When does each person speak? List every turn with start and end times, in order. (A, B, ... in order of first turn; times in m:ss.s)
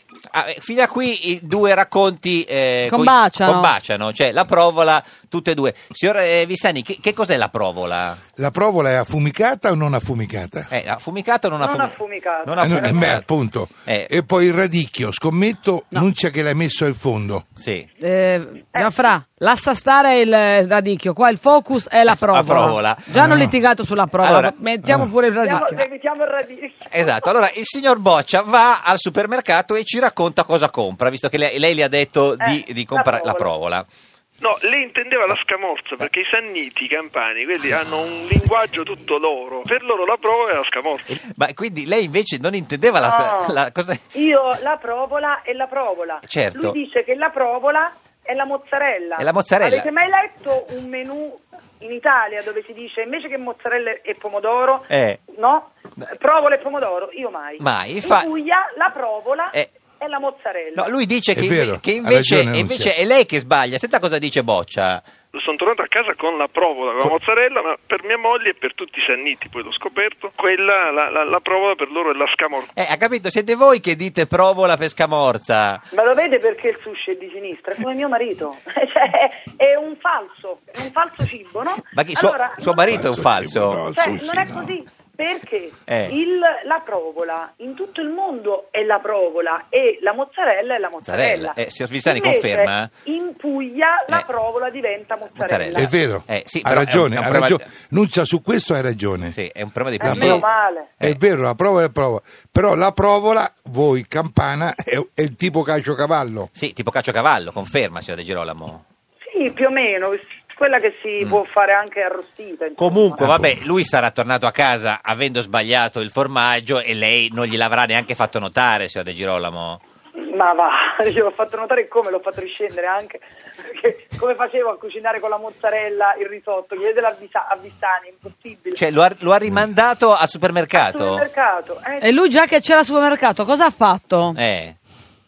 0:00.3-0:08.2 A
0:02.8-0:03.8 B
0:08.4-0:10.7 C
0:10.7-0:13.3 A
0:11.6-0:13.2 D
0:12.6-0:17.4 C
0:17.6-0:17.9 A
0:18.0-0:25.8 B
0:18.7-0:19.1 D
0:22.2-0:23.1 A
0:23.1-0:23.6 C
0:24.2-0:24.5 A
0:24.8-0:25.1 C
0:25.4-0:27.3 D
0:26.9-0:33.8 A
0:32.4-0:33.5 D
0:34.4-0:41.1 E
0:41.1-0:44.0 A
0:43.0-0:43.6 D
0:44.1-1:00.9 D
0:46.2-0:46.8 A
0:49.2-0:49.9 A
0:54.9-0:55.2 A
0:57.6-0:58.3 A
1:00.8-1:05.0 A
1:01.3-1:02.9 C
1:05.3-1:12.7 E
1:12.8-1:15.8 A
1:15.9-1:23.0 D
1:21.9-1:23.8 A
1:22.8-1:24.8 C
1:23.9-1:35.9 D
1:25.9-1:26.2 A
1:31.0-1:32.9 A
1:35.3-1:37.7 A
1:35.7-1:39.4 C
1:39.3-1:40.5 A
1:40.0-1:40.9 D
1:40.0-1:40.5 C
1:41.0-1:46.5 C
1:46.5-1:48.8 A
1:49.2-1:53.2 D
1:52.8-1:59.8 A
1:53.2-1:53.5 C
2:00.2-2:08.8 D
2:08.7-2:11.3 A
2:10.7-2:12.1 D
2:12.0-2:14.4 B
2:14.3-2:14.8 A